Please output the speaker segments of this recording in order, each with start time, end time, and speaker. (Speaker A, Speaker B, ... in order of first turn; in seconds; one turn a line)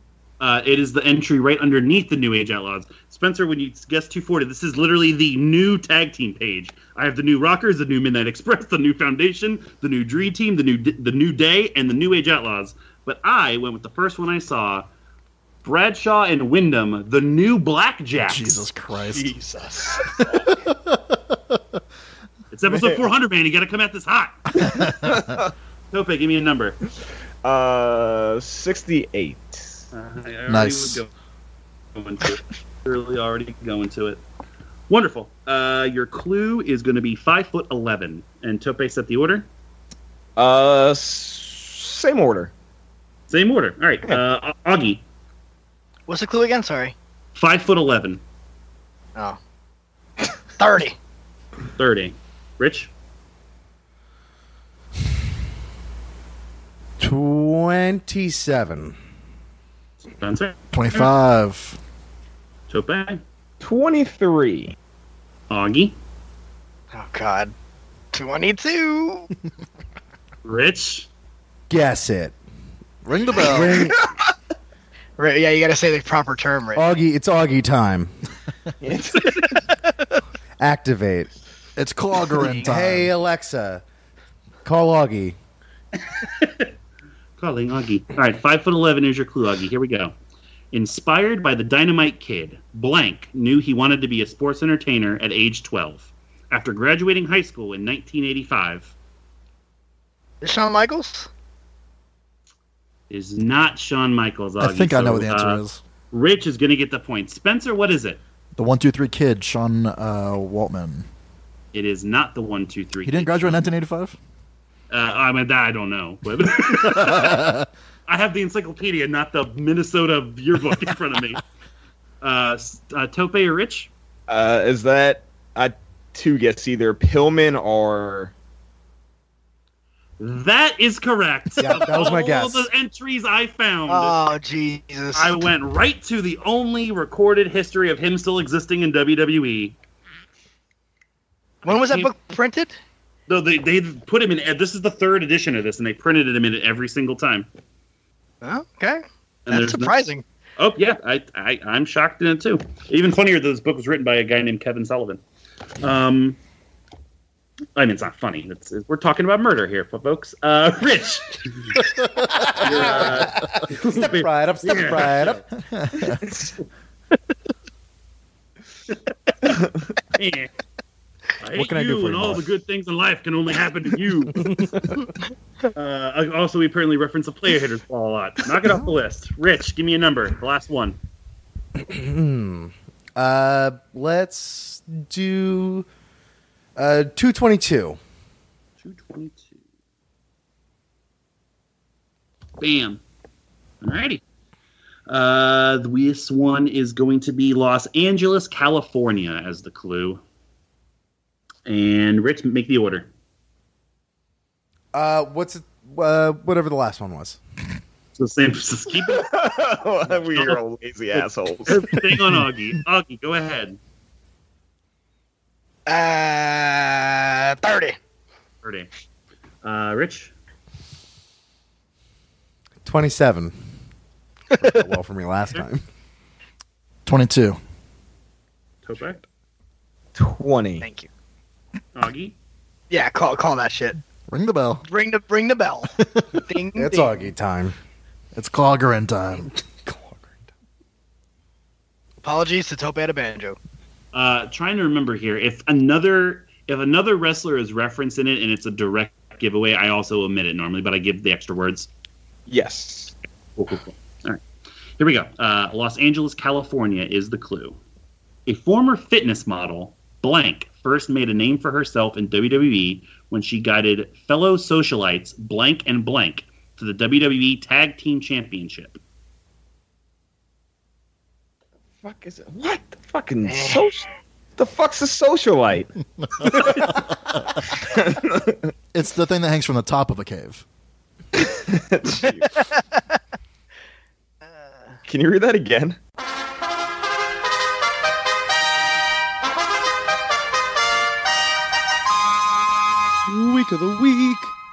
Speaker A: 0.4-14.9
Speaker A: 15.6-18.6
Speaker B: 18.2-19.4
Speaker C: 19.0-20.1
Speaker B: 20.2-21.1
Speaker A: 22.5-24.8
Speaker C: 22.7-23.0
Speaker C: 24.7-25.5
Speaker A: 25.9-26.8
Speaker C: 27.4-29.8
Speaker A: 29.9-31.1
Speaker B: 30.5-31.0
Speaker A: 31.9-34.2
Speaker A: 34.9-39.5
Speaker C: 40.4-42.5
Speaker A: 43.3-45.0
Speaker D: 46.1-46.9
Speaker A: 47.3-48.2
Speaker D: 50.6-51.0
Speaker A: 51.8-52.9
Speaker E: 57.0-59.0
Speaker A: 60.1-61.1
Speaker B: 60.7-61.8
Speaker A: 62.7-63.2
Speaker C: 63.6-64.7
Speaker A: 65.5-66.0
Speaker D: 66.9-67.5
Speaker D: 68.1-69.3
Speaker A: 70.4-71.1
Speaker E: 71.7-72.3
Speaker B: 73.0-73.8
Speaker E: 73.3-74.0
Speaker D: 75.2-76.8
Speaker E: 76.8-78.1
Speaker C: 78.8-79.5
Speaker E: 80.6-81.3
Speaker B: 81.8-83.1
Speaker D: 82.4-82.6
Speaker E: 82.5-83.8
Speaker E: 84.6-85.4
Speaker A: 86.2-86.7
Speaker A: 87.4-90.1
Speaker A: 90.7-98.9
Speaker D: 100.4-101.3
Speaker A: 103.1-108.2
Speaker B: 104.6-105.8
Speaker B: 108.5-111.1
Speaker A: 111.7-113.6
Speaker B: 113.0-114.2
Speaker A: 114.9-117.5
Speaker B: 117.0-117.7
Speaker A: 118.1-121.4
Speaker A: 122.2-123.9
Speaker C: 124.3-128.3
Speaker A: 130.2-134.1
Speaker E: 131.6-132.7
Speaker D: 133.9-135.3
Speaker A: 135.1-139.8
Speaker D: 141.6-142.8
Speaker A: 141.7-142.1
Speaker A: 143.3-147.5
Speaker D: 148.4-150.2
Speaker A: 149.5-149.9
Speaker A: 150.6-155.2
Speaker A: 155.8-156.4
Speaker A: 157.8-161.8
Speaker E: 162.3-165.4
Speaker A: 162.6-165.4
Speaker B: 165.7-166.2
Speaker C: 166.0-166.6
Speaker C: 169.4-169.7
Speaker A: 170.2-170.5
Speaker A: 171.4-174.6
Speaker E: 171.5-172.4
Speaker A: 175.7-181.0
Speaker E: 181.8-185.8
Speaker E: 186.8-188.0
Speaker A: 188.8-189.5
Speaker A: 192.6-193.0
Speaker A: 193.8-194.2
Speaker A: 195.1-200.2
Speaker A: 201.7-203.1
Speaker E: 204.9-207.4
Speaker A: 208.2-209.4
Speaker C: 209.1-211.9
Speaker A: 210.3-210.6
Speaker A: 211.7-213.8
Speaker D: 215.8-218.0
Speaker A: 218.6-218.9
Speaker A: 219.6-220.3
Speaker E: 222.8-223.5
Speaker E: 224.5-225.8
Speaker B: 227.1-227.6
Speaker A: 228.8-229.2
Speaker C: 230.1-230.8
Speaker D: 230.8-231.1
Speaker A: 231.9-232.3
Speaker D: 232.9-234.0
Speaker B: 234.3-234.8
Speaker D: 234.9-237.1
Speaker E: 236.8-237.7
Speaker B: 238.3-239.5
Speaker E: 239.8-240.3
Speaker D: 242.2-243.6
Speaker A: 244.1-251.9
Speaker C: 252.5-253.1
Speaker A: 253.6-254.4
Speaker A: 255.0-257.8
Speaker A: 258.4-269.0
Speaker C: 272.0-275.9
Speaker D: 273.5-273.8
Speaker C: 276.4-276.8
Speaker C: 277.8-278.6
Speaker B: 278.9-280.6
Speaker C: 281.9-282.5
Speaker D: 284.6-285.0
Speaker C: 285.1-286.0
Speaker E: 293.3-294.5